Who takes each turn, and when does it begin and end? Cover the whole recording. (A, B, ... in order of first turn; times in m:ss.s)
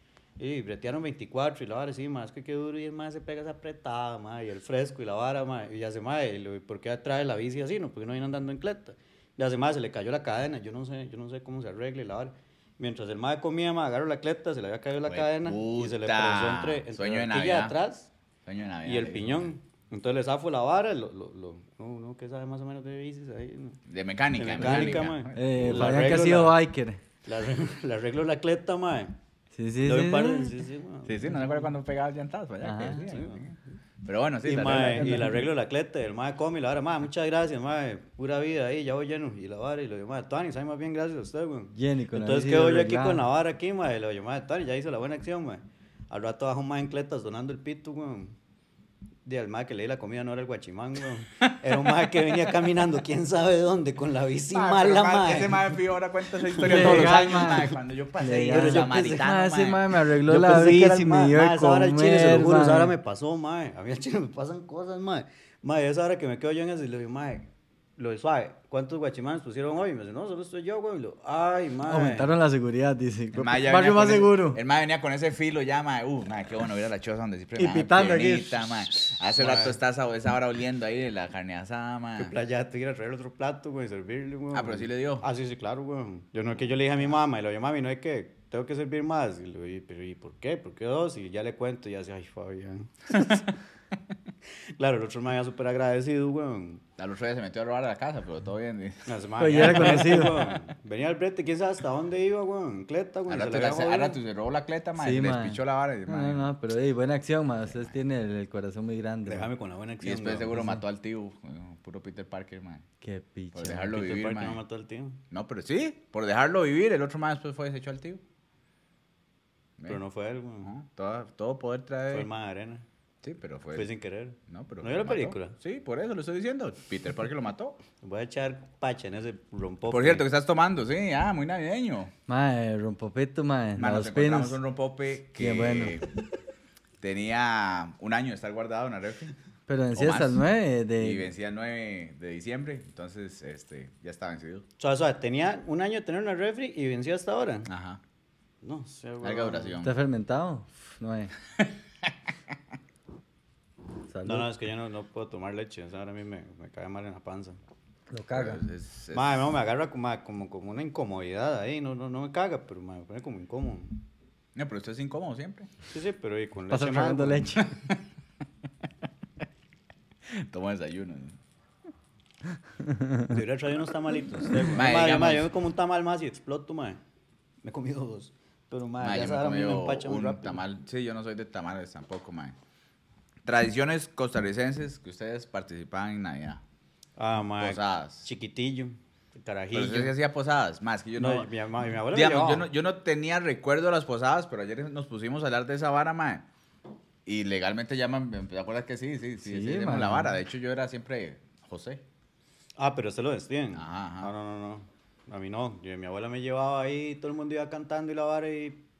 0:00.4-0:18.1 A
0:15.1-0:17.8 B
0:18.5-0:19.5 B
0:18.8-0:23.8 A
0:23.9-0:26.0 B
0:24.4-0:26.6 A
0:25.3-0:27.0 C
0:27.2-0:29.2 A
0:29.6-0:30.6 C
0:29.8-0:31.6 A
0:31.1-0:35.3 B
0:32.6-0:33.0 C
0:33.1-0:33.5 A
0:34.4-0:48.3 A
0:35.0-0:35.4 C
0:41.8-0:43.2 C
0:49.3-0:55.9 A
0:51.4-0:52.5 B
0:54.5-0:59.9 B
0:56.4-0:57.7 A
0:56.6-1:02.9 C
0:58.5-0:59.1 A
1:00.2-1:12.3 A
1:11.8-1:14.6 C
1:13.4-1:22.3 B
1:17.6-1:18.7 C
1:19.3-1:19.8 A
1:22.2-1:33.4 A
1:24.5-1:25.3 B
1:34.8-1:36.8 A
1:37.0-1:40.4 B
1:39.1-1:44.2 A
1:39.4-1:40.4 C
1:43.3-1:46.5 B
1:45.0-1:49.5 C
1:49.3-1:50.6 A
1:50.0-1:52.8 B
1:50.5-1:50.8 C
1:53.0-1:53.9 C
1:53.6-1:54.6 B
1:53.9-1:55.2 A
1:55.3-1:58.2 B
1:59.9-2:00.7 A
2:00.6-2:02.3 B
2:02.1-2:02.8 A
2:03.2-2:03.9 B
2:03.8-2:05.6 A
2:04.5-2:07.8 B
2:08.0-2:10.2 A
2:09.9-2:12.1 B
2:12.3-2:14.6 C
2:13.8-2:16.1 B
2:15.4-2:16.0 C
2:17.0-2:19.3 B
2:19.7-2:21.3 C
2:20.0-2:20.4 B
2:21.0-2:24.6 B
2:24.8-2:27.7 A
2:27.7-2:28.0 B
2:28.6-2:29.8 A
2:29.2-2:30.0 B
2:29.8-2:31.3 C
2:31.6-2:32.1 B
2:34.1-2:34.5 C
2:34.2-2:37.6 A
2:38.1-2:38.6 C
2:38.4-2:39.4 B
2:39.1-2:44.0 A
2:44.6-2:45.7 B
2:45.9-2:47.7 A
2:46.7-2:47.7 C
2:47.6-2:48.0 B
2:50.3-2:51.4 B
2:52.8-2:53.3 C
2:53.3-2:57.0 A
2:54.7-2:55.5 B
2:57.6-3:00.6 A
2:59.0-3:02.6 B
3:03.4-3:06.6 B
3:07.2-3:10.1 A
3:07.6-3:08.3 B
3:09.7-3:11.5 B
3:11.2-3:12.7 A
3:12.1-3:16.4 B
3:17.3-3:22.0 B
3:19.4-3:20.3 C
3:22.8-3:28.8 A
3:23.7-3:24.3 B